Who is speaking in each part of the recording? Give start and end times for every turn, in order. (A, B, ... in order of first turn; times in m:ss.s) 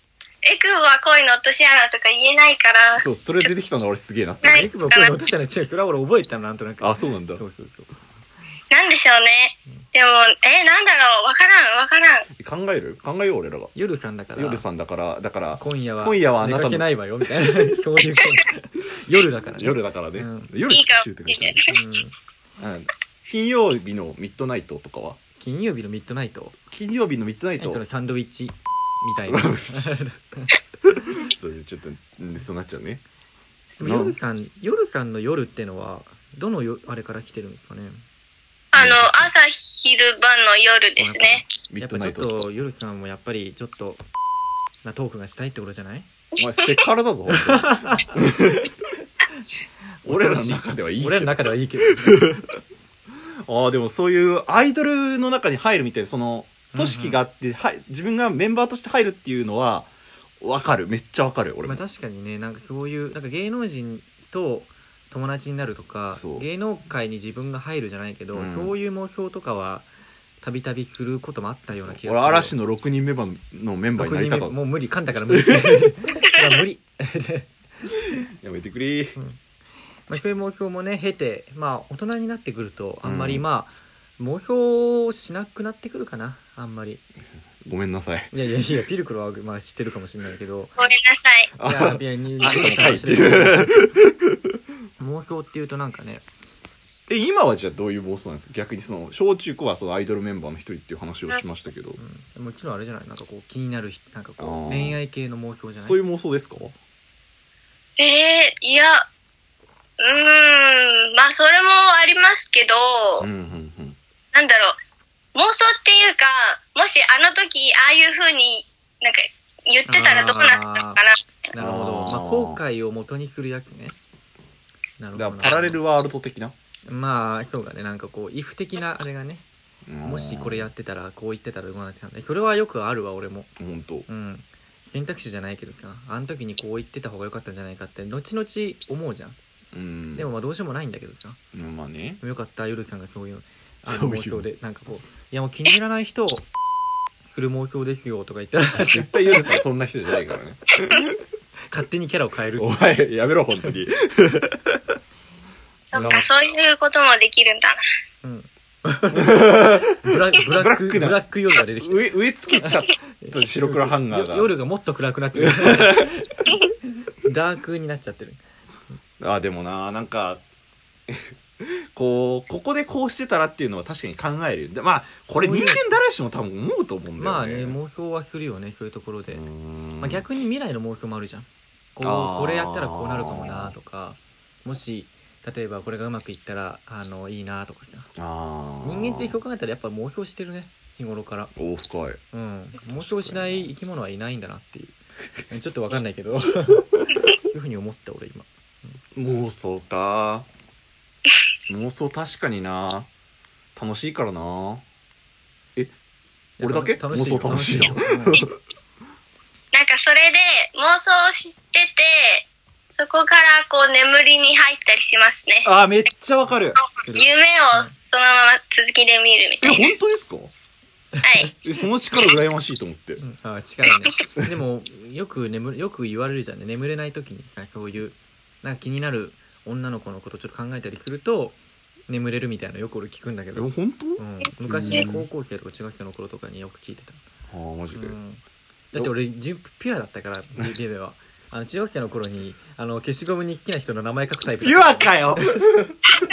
0:00.4-0:03.0 A
0:02.9-0:04.9 B
0:04.4-0:05.2 A
0:04.5-0:07.9 C
0:06.8-0:07.4 B
0:08.7-0:12.3 A
0:12.4-0:13.7 B
0:13.7-0:14.6 C
0:14.3-0:16.9 B
0:15.6-0:20.5 C
0:19.5-0:21.6 B
0:20.7-0:21.7 A
0:21.7-0:22.1 C
0:22.6-0:25.2 B
0:25.4-0:26.5 C
0:26.7-0:27.8 B
0:27.6-0:30.6 C
0:29.3-0:30.0 B
0:30.9-0:33.0 B
0:33.8-0:38.0 C
0:33.8-0:34.2 B
0:38.7-0:41.4 A
0:38.7-0:39.3 B
0:41.0-0:44.0 C
0:41.7-0:42.5 B
0:44.8-0:46.1 C
0:46.4-0:48.7 B
0:46.4-0:46.7 A
0:47.3-0:48.2 C
0:50.0-0:52.4 C
0:50.0-0:52.4 B
0:53.4-0:59.9 B
0:56.7-0:57.2 C
1:00.4-1:01.8 B
1:01.6-1:09.9 C
1:06.1-1:06.5 B
1:08.3-1:08.7 B
1:10.4-1:12.5 C
1:11.8-1:14.6 B
1:14.0-1:17.5 C
1:15.3-1:15.8 B
1:18.4-1:19.2 B
1:20.1-1:27.0 C
1:23.0-1:23.4 B
1:27.6-1:28.3 B
1:28.3-1:30.7 C
1:30.8-1:31.5 A
1:31.6-1:34.4 B
1:31.6-1:33.7 C
1:35.0-1:36.2 C
1:37.1-1:42.0 B
1:42.0-1:46.0 C
1:44.4-1:45.0 B
1:45.8-1:46.7 B
1:48.0-1:49.0 A
1:50.0-1:53.2 A
1:53.2-1:54.0 B
1:54.3-1:54.7 A
1:55.3-2:01.2 A
1:59.9-2:01.0 C
2:01.5-2:04.0 C
2:01.6-2:02.6 B
2:05.0-2:05.8 C
2:05.2-2:06.5 B
2:06.9-2:09.4 C
2:09.9-2:10.7 B
2:10.0-2:13.5 C
2:13.6-2:14.1 B
2:14.1-2:19.4 C
2:19.7-2:20.3 B
2:20.1-2:21.4 C
2:21.5-2:22.2 B
2:22.2-2:26.4 C
2:23.8-2:24.5 B
2:27.2-2:29.4 C
2:28.8-2:31.1 B
2:31.7-2:32.8 C
2:32.6-2:34.9 B
2:35.9-2:37.8 A
2:36.0-2:36.2 C
2:38.2-2:46.6 C
2:39.1-2:44.5 B
2:45.4-2:46.1 B
2:47.2-2:48.4 C
2:49.2-2:50.4 B
2:51.1-2:57.8 B
2:55.3-2:55.8 C
2:57.2-2:59.4 C
2:59.3-3:00.2 B
3:00.0-3:08.1 C
3:02.0-3:03.7 B
3:08.2-3:09.4 B
3:08.8-3:11.5 C
3:11.5-3:12.2 B
3:12.3-3:15.0 C
3:12.9-3:13.7 B
3:15.5-3:19.0 C
3:19.1-3:20.4 B
3:21.7-3:23.1 B
3:23.8-3:24.8 B
3:26.6-3:28.4 C
3:26.6-3:28.6 B
3:29.7-3:35.7 A
3:35.6-3:36.8 B
3:37.0-3:37.9 C
3:37.0-3:39.9 A
3:39.6-3:40.5 B
3:41.2-3:41.5 C
3:41.2-3:41.5 A
3:41.6-3:43.2 B
3:43.2-3:51.6 C
3:52.1-3:57.2 C
3:53.5-3:55.3 B
3:57.5-3:58.2 B
3:57.9-3:58.4 C
3:58.9-4:05.6 C
4:04.6-4:06.0 B